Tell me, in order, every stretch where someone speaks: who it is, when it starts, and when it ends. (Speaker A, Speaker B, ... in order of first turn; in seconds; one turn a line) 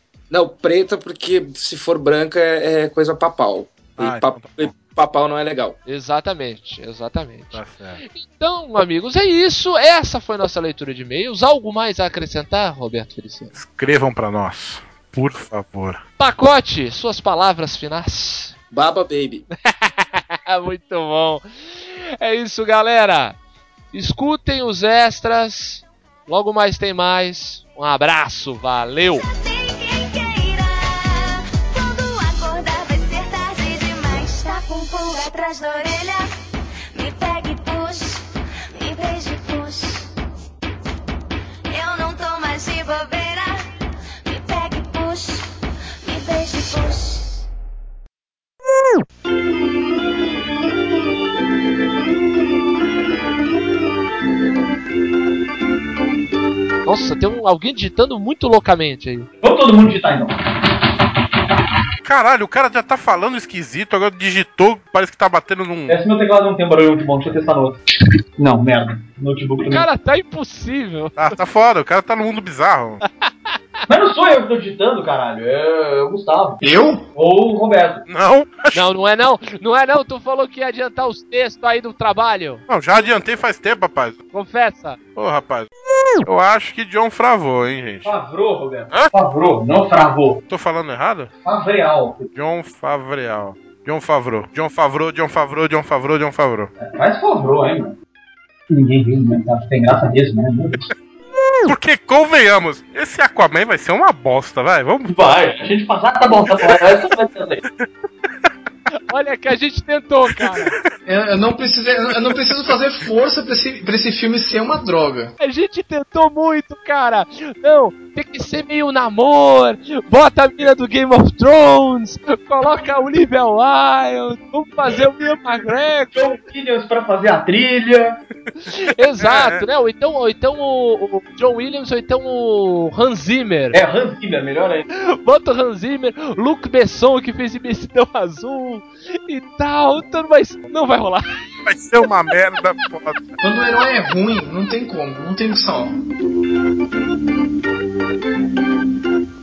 Speaker A: 0.3-5.8
Speaker B: 4.0-4.8
Speaker C: 5.9-13.5
Speaker B: 7.5-8.0
Speaker B: 13.6-16.0
Speaker C: 16.2-18.5
Speaker A: 18.7-19.5
Speaker C: 19.7-21.4
Speaker C: 22.2-23.4
Speaker C: 23.9-29.2
Speaker D: 29.2-36.3
Speaker D: 36.9-40.1
Speaker D: 41.7-43.7
Speaker D: 44.3-47.5
Speaker C: 56.9-59.3
Speaker E: 59.4-60.4
Speaker B: 62.0-66.0
Speaker E: 65.9-67.8
Speaker E: 68.4-69.9
Speaker C: 69.7-71.2
Speaker B: 71.2-73.0
Speaker C: 73.2-73.5
Speaker E: 73.9-76.6
Speaker F: 76.6-77.0
Speaker E: 77.2-78.0
Speaker B: 78.1-78.8
Speaker C: 78.7-82.7
Speaker B: 82.7-84.2
Speaker C: 84.3-85.0
Speaker B: 85.2-85.7
Speaker B: 86.2-88.1
Speaker E: 88.0-90.4
Speaker B: 90.5-91.3
Speaker E: 91.5-92.3
Speaker B: 92.3-96.7
Speaker E: 96.8-98.0
Speaker E: 98.7-100.9
Speaker B: 101.6-105.2
Speaker E: 105.1-107.6
Speaker C: 109.1-110.8
Speaker F: 111.1-115.3
Speaker C: 115.4-126.2
Speaker E: 126.1-128.2
Speaker C: 128.6-133.8
Speaker B: 129.2-129.6
Speaker E: 133.7-134.9
Speaker C: 134.9-141.3
Speaker B: 141.7-143.2
Speaker F: 143.4-146.0